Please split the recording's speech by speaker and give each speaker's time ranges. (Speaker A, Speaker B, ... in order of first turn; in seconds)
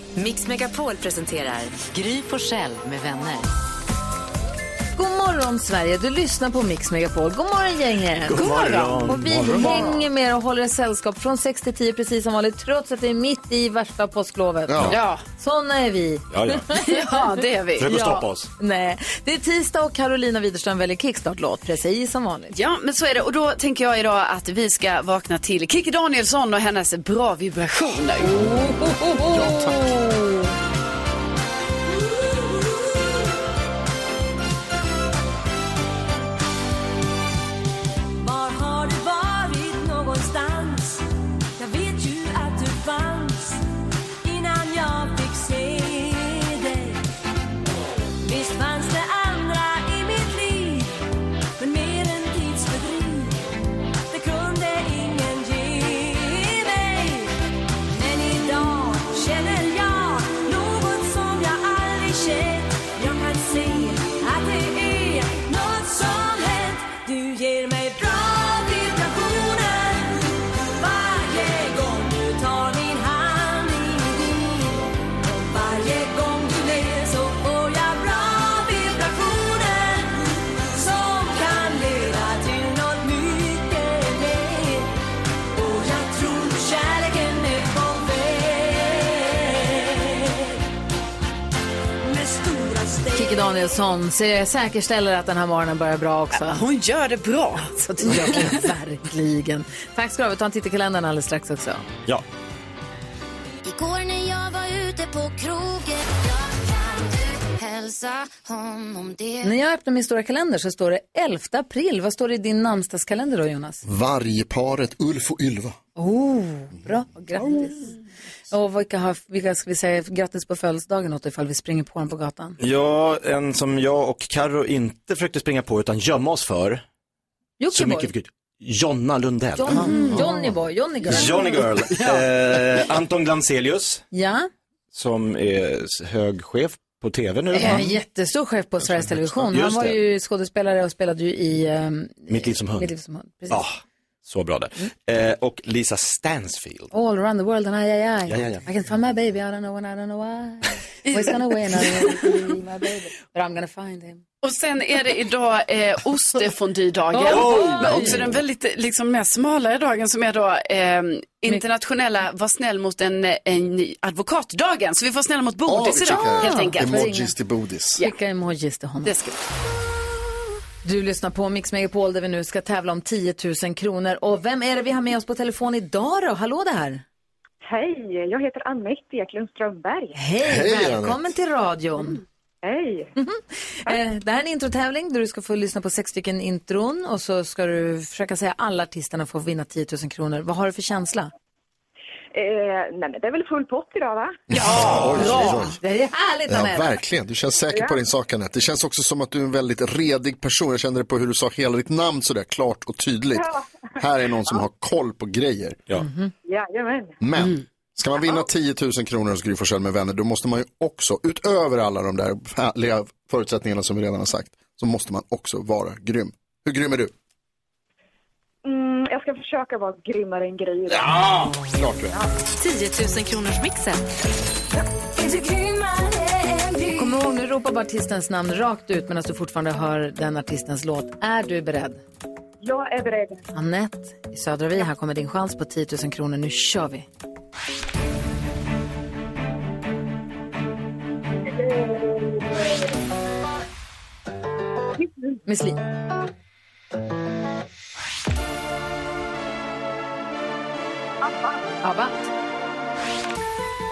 Speaker A: 0.2-3.4, 103.7-109.5
Speaker B: 0.2-3.4, 222.7-224.0
Speaker C: 5.0-8.5, 9.0-17.1, 17.8-22.6, 28.2-30.5, 93.1-96.6, 97.7-101.8, 109.4-113.8, 116.0-118.0, 118.5-122.6, 127.6-128.1, 129.6-131.6, 134.1-134.5, 137.5-143.7, 146.9-154.2, 157.1-158.2, 166.0-167.3, 168.0-169.2, 170.8-177.0, 180.1-182.2, 183.2-191.3, 195.1-196.9, 206.0-206.3, 226.9-232.0, 233.5-237.1, 245.4-245.8, 251.8-252.2
Speaker D: 8.3-9.7, 16.3-16.7, 17.8-18.5, 122.6-126.8, 127.7-130.2, 131.0-134.1, 134.9-138.0, 139.5-140.0, 142.3-142.9, 143.5-146.9, 148.3-148.6, 157.2-158.4, 194.8-195.1
Speaker E: 8.3-9.9, 14.9-15.2, 16.8-18.0, 22.5-28.3, 96.3-98.5, 151.1-151.9, 154.4-167.1, 169.0-169.4, 194.5-195.6
Speaker F: 14.7-15.0, 29.3-29.9, 113.8-115.8, 138.8-139.3, 165.7-168.0, 180.4-181.2, 194.5-195.8, 196.5-203.5, 204.0-205.8, 207.2-217.1, 221.1-222.1
Speaker G: 32.0-33.0, 38.2-41.0, 41.6-43.6, 44.2-47.0, 48.2-50.9, 51.6-53.4, 54.1-57.3, 57.9-84.9, 85.5-90.4, 92.0-93.9, 225.2-227.2
Speaker H: 177.6-180.2, 182.6-183.1, 192.3-194.4, 197.7-198.0, 206.4-207.2, 218.6-221.3, 232.6-233.4, 241.5-242.7, 245.0-245.3, 251.2-251.6